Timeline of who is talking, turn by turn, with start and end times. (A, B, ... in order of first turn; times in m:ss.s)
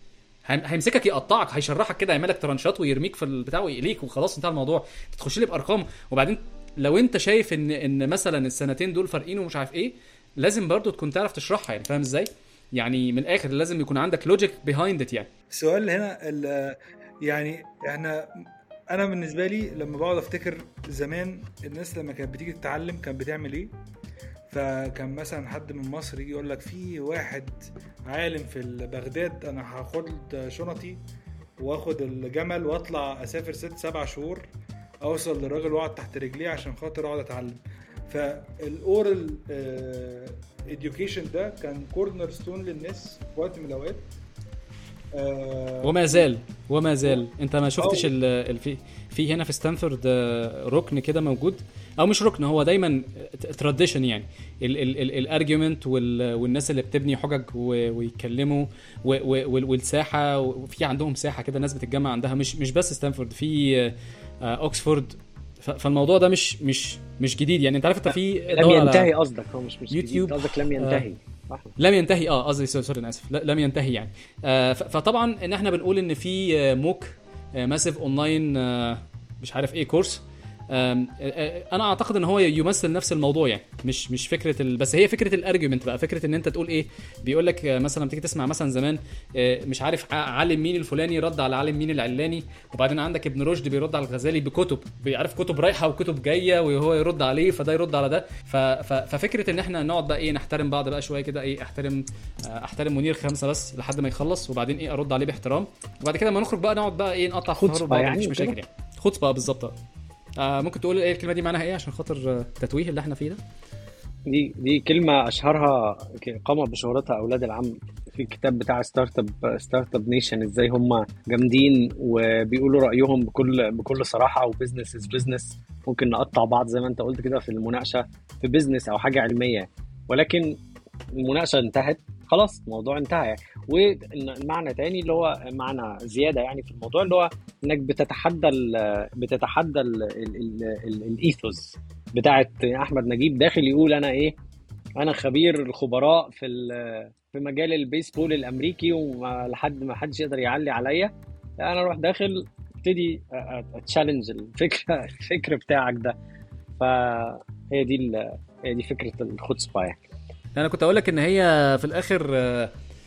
0:00.5-0:15.3 A
0:15.5-0:23.7 B
0:24.5-0:31.0 B
0:31.6-0:34.5 B
0:35.0-0:44.0 B
0:45.1-0:46.2 B
0:45.8-1:09.1 A
0:47.8-0:48.1 B
1:08.5-1:11.7 C
1:09.9-1:11.0 A
1:11.8-1:49.7 A
1:47.6-1:48.6 C
1:50.4-1:53.4 A
1:54.3-2:10.6 C
2:11.1-2:24.3 C
2:25.0-2:36.2 C
2:36.8-2:40.0 C
2:40.6-2:42.7 A